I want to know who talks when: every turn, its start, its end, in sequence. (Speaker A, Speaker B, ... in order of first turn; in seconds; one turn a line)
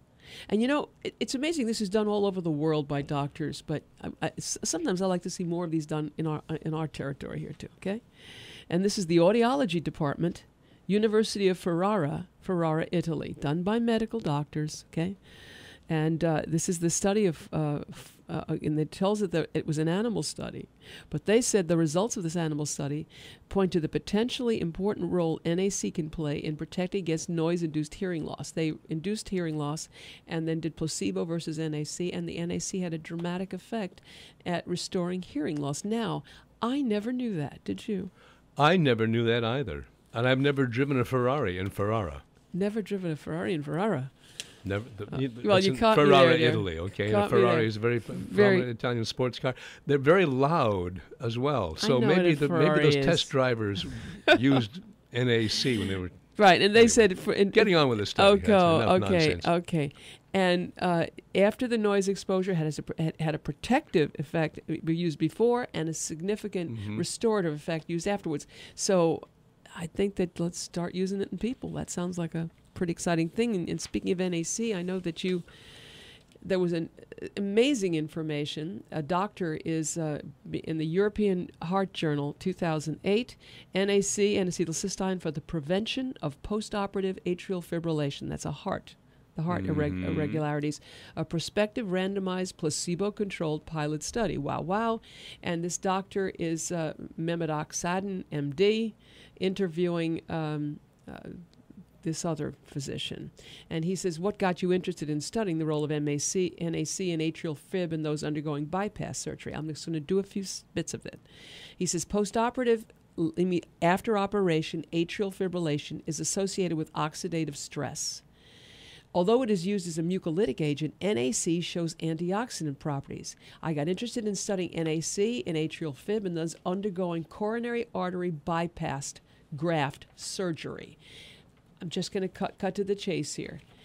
Speaker A: 0.5-15.2
Speaker A: 15.9-38.1
Speaker B: 38.5-42.2
Speaker A: 42.5-44.1
Speaker B: 44.6-59.5
Speaker A: 45.1-48.7
Speaker A: 51.8-54.0
Speaker A: 56.4-75.5
Speaker B: 66.7-67.0
Speaker A: 76.4-101.4
Speaker B: 89.5-90.4
Speaker A: 102.0-111.2
Speaker A: 111.8-118.2
Speaker A: 119.1-131.0
Speaker A: 131.8-133.6